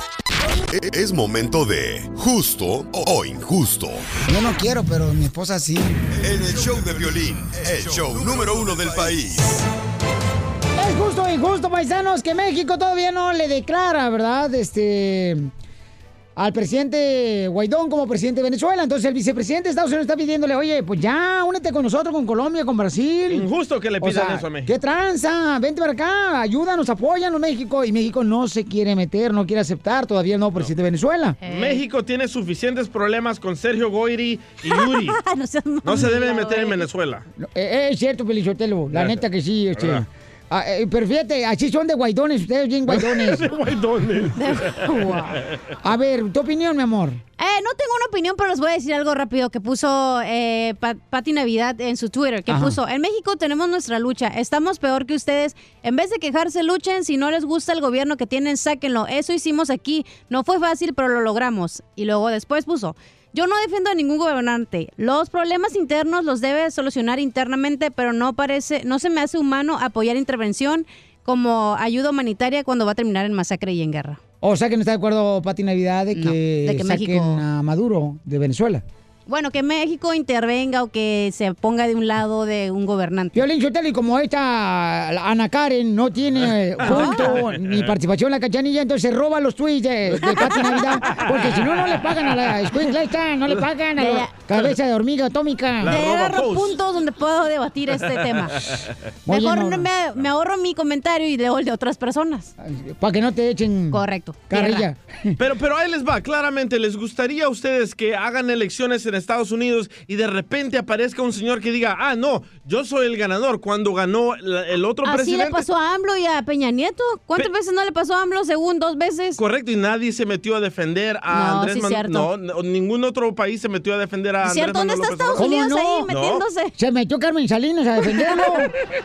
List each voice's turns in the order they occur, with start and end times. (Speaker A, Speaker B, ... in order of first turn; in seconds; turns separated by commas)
Speaker A: 0.7-4.1, Speaker B: 4.3-6.0, Speaker A: 6.1-9.6, Speaker B: 10.8-15.5, Speaker B: 16.4-23.5, Speaker C: 23.3-24.7, Speaker B: 24.0-31.4, Speaker D: 31.4-31.8, Speaker C: 31.4-35.2, Speaker D: 34.6-36.9, Speaker C: 35.8-37.2, Speaker B: 37.4-43.5, Speaker C: 38.9-39.2, Speaker C: 39.7-40.0, Speaker C: 42.9-45.6, Speaker D: 44.4-45.4, Speaker B: 45.8-47.2, Speaker D: 47.4-74.2, Speaker B: 52.5-52.8, Speaker B: 74.4-78.8, Speaker D: 76.1-77.4, Speaker D: 79.3-83.4, Speaker B: 83.3-96.0, Speaker C: 86.8-87.9, Speaker D: 86.8-87.4, Speaker D: 90.3-90.8, Speaker C: 91.1-91.4, Speaker D: 94.0-94.3, Speaker C: 95.8-96.8, Speaker D: 95.9-102.5, Speaker C: 98.4-98.9, Speaker B: 99.3-99.9, Speaker B: 102.6-105.3, Speaker D: 103.9-104.9, Speaker C: 105.4-115.7, Speaker D: 115.0-119.4, Speaker C: 119.4-125.5, Speaker D: 121.3-122.3, Speaker D: 124.4-126.7, Speaker B: 125.4-126.1, Speaker C: 126.1-126.4, Speaker B: 126.8-128.7